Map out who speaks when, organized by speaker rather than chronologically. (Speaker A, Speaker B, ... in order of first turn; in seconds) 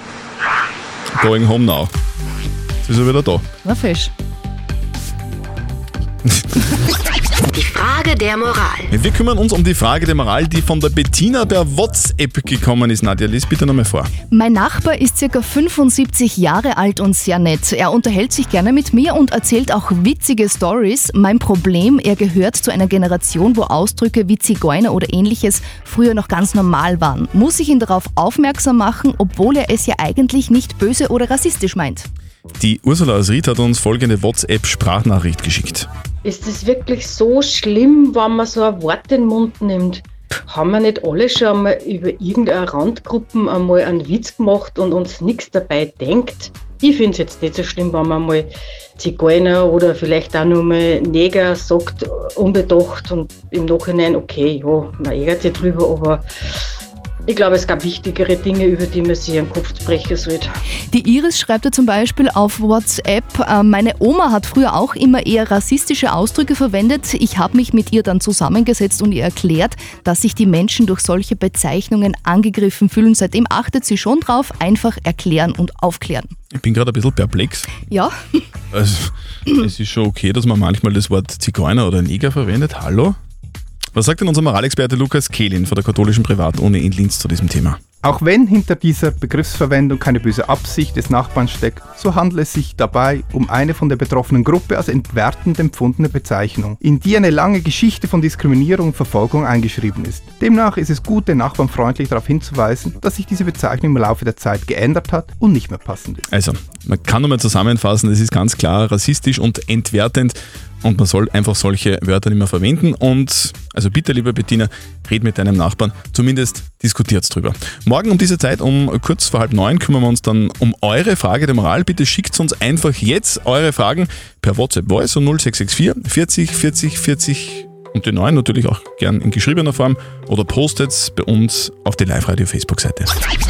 Speaker A: 1.1-1.9, 2.9-3.5, 8.9-14.1, 32.6-35.9, 76.5-77.7, 78.7-83.2, 83.9-87.8, 106.3-133.1
Speaker B: 3.6-4.1, 14.3-32.1, 60.9-76.3, 77.9-78.4
Speaker C: 36.2-48.5, 49.0-56.2, 57.3-60.5
Speaker D: 88.0-106.3